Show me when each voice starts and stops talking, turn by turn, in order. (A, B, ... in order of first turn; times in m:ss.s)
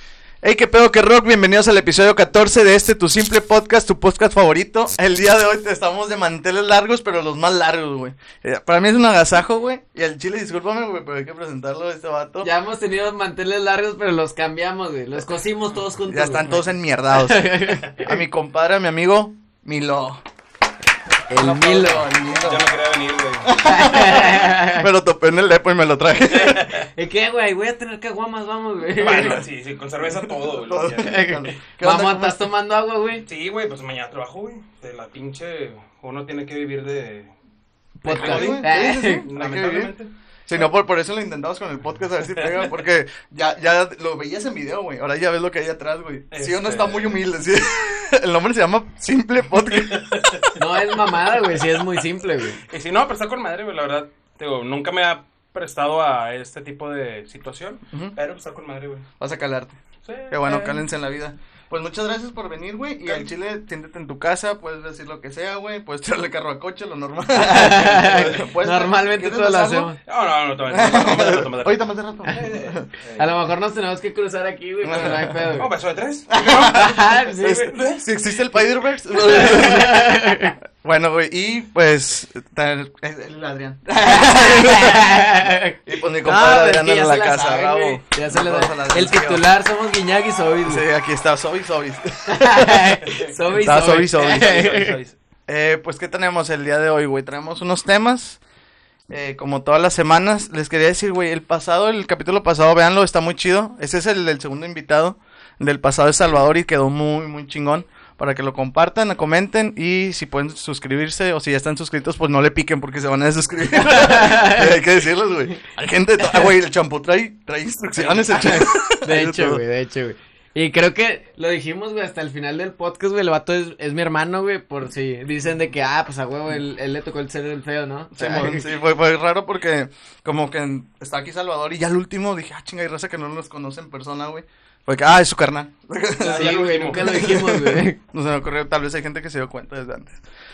0:00.4-0:12.5 A
0:12.4-0:18.1 B
0:16.0-0:20.2 A
0:21.3-0:22.1 B
0:21.3-0:22.7 A
0:22.4-0:23.5 C
0:23.5-0:26.6 A
0:23.6-0:24.9 B
0:26.3-0:26.8 C
0:26.8-0:29.4 B
0:29.0-0:31.2 C
0:30.2-0:32.5 A
0:31.0-0:33.2 B
0:33.2-0:37.3 C
0:38.0-0:39.2 B
0:38.0-0:40.1 C
0:38.1-0:39.9 A
0:40.5-0:50.4 A
0:46.3-0:47.2 C
0:49.9-0:50.5 C
0:50.6-0:52.6 B
0:52.7-0:59.1 C
0:57.9-0:58.2 A
0:59.2-0:59.8 A
1:00.0-1:00.9 C
1:00.3-1:09.9 A
1:07.3-1:10.0 B
1:10.0-1:13.4 C
1:10.7-1:12.9 A
1:13.2-1:15.7 B
1:14.8-1:15.6 A
1:15.5-1:18.0 C
1:16.3-1:20.3 A
1:16.6-1:17.8 B
1:19.1-1:20.6 B
1:20.8-1:25.3 A
1:24.0-1:30.8 B
1:25.8-1:29.4 A
1:30.6-1:34.5 A
1:32.3-1:35.0 B
1:34.2-1:35.2 C
1:35.5-1:38.4 A
1:39.1-1:59.6 A
1:53.8-1:54.8 B
1:57.9-1:58.5 C
1:58.3-2:08.7 B
2:08.1-2:20.2 A
2:16.2-2:17.3 C
2:16.2-2:18.0 B